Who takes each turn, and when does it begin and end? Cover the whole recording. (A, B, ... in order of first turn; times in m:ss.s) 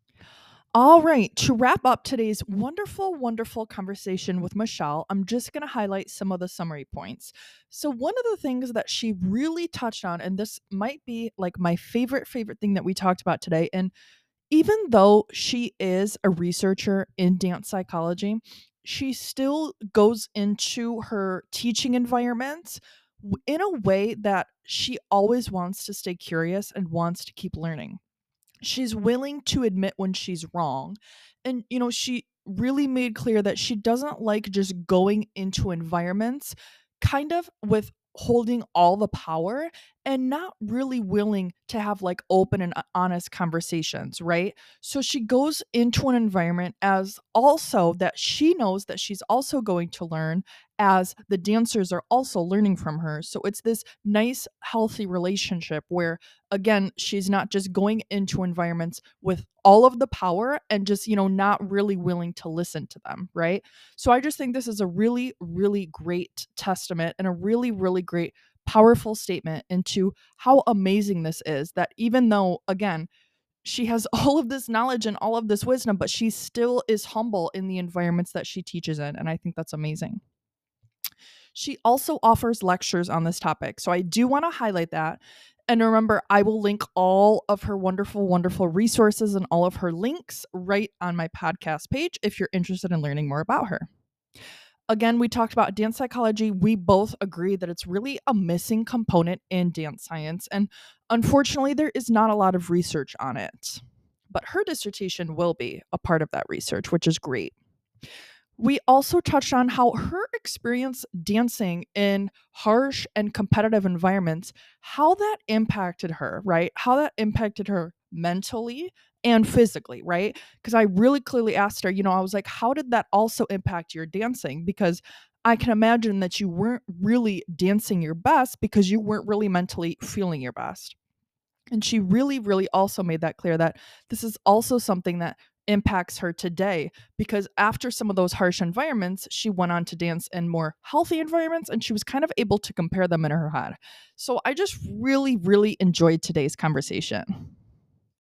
0:00.7-0:13.9 A
0:14.5-0:28.0 A
0:28.6-1:13.1 A
1:13.6-1:20.2 A
1:21.5-1:33.9 A
1:34.9-1:47.5 A
1:48.6-2:11.0 A
2:11.7-2:27.5 A